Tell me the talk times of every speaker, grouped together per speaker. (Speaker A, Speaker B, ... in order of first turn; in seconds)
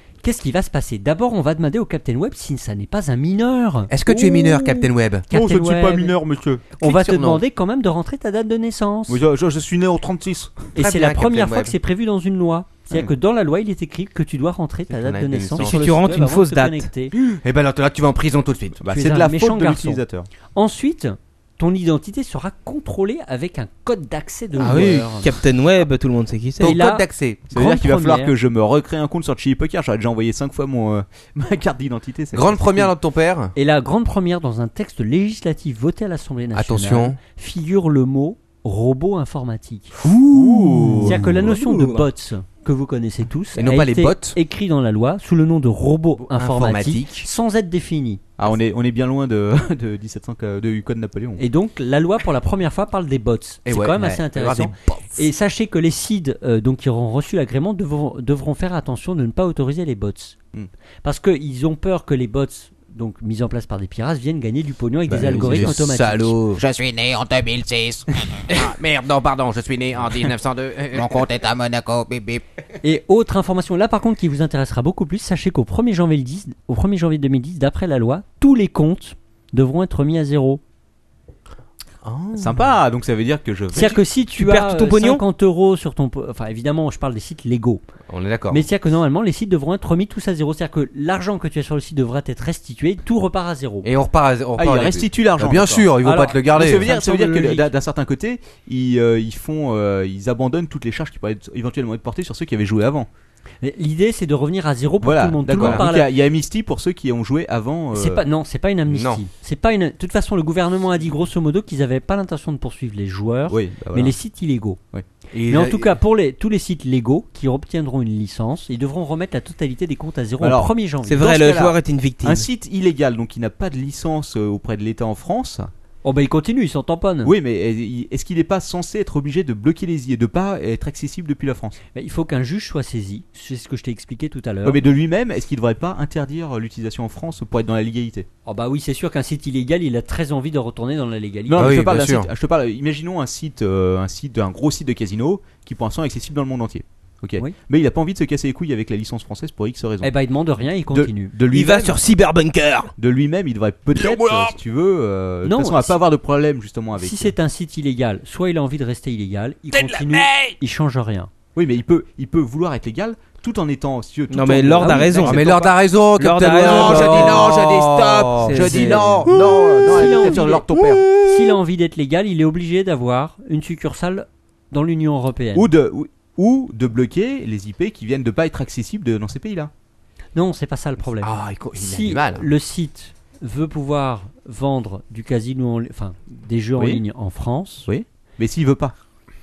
Speaker A: 0.2-3.9, 5.3-6.1, 6.8-9.2, 10.8-17.1, 18.9-20.0, 20.5-25.3, 26.6-28.3, 33.5-39.9, 41.0-48.2, 51.4-60.4, 61.0-66.4, 72.8-80.6, 83.7-87.8, 88.5-93.9, 96.0-97.7, 103.6-106.1, 107.9-114.8, 115.5-121.3, 126.0-127.3, 131.9-134.8, 138.4-141.8, 150.0-151.3, 155.4-156.0, 157.0-161.3, 164.8-165.6, 169.8-170.6, 171.2-175.7, 180.3-187.9
Speaker B: 3.9-5.2, 6.8-7.4, 10.8-11.7, 14.9-15.9, 17.2-18.8, 24.6-25.1, 26.6-27.5, 32.3-33.5, 36.5-37.2, 40.0-41.5, 43.5-44.4, 46.3-47.3, 53.6-55.2, 65.1-66.6, 68.5-71.2, 82.0-82.7, 88.1-88.6, 93.8-96.9, 105.5-105.8, 108.9-109.2, 115.3-116.0, 141.6-142.3, 154.0-154.5, 165.2-171.0, 181.2-182.5
Speaker C: 4.1-4.4, 5.3-6.7, 9.1-10.7, 18.8-20.3, 27.5-32.9, 40.3-41.2, 48.4-51.4, 82.3-84.0, 94.6-95.9, 96.5-103.1, 105.0-108.2, 113.5-114.1, 120.4-125.7, 127.2-131.8, 134.6-138.3, 141.5-150.1, 150.9-152.0, 153.0-157.3, 161.5-165.5, 166.5-171.2, 175.5-179.7, 186.8-187.0, 187.8-188.9
Speaker D: 15.6-16.9, 24.6-26.8, 41.5-42.0, 84.3-85.2, 121.0-122.5, 151.5-152.9, 164.3-167.6, 168.3-169.6
Speaker E: 66.5-68.8, 70.8-72.4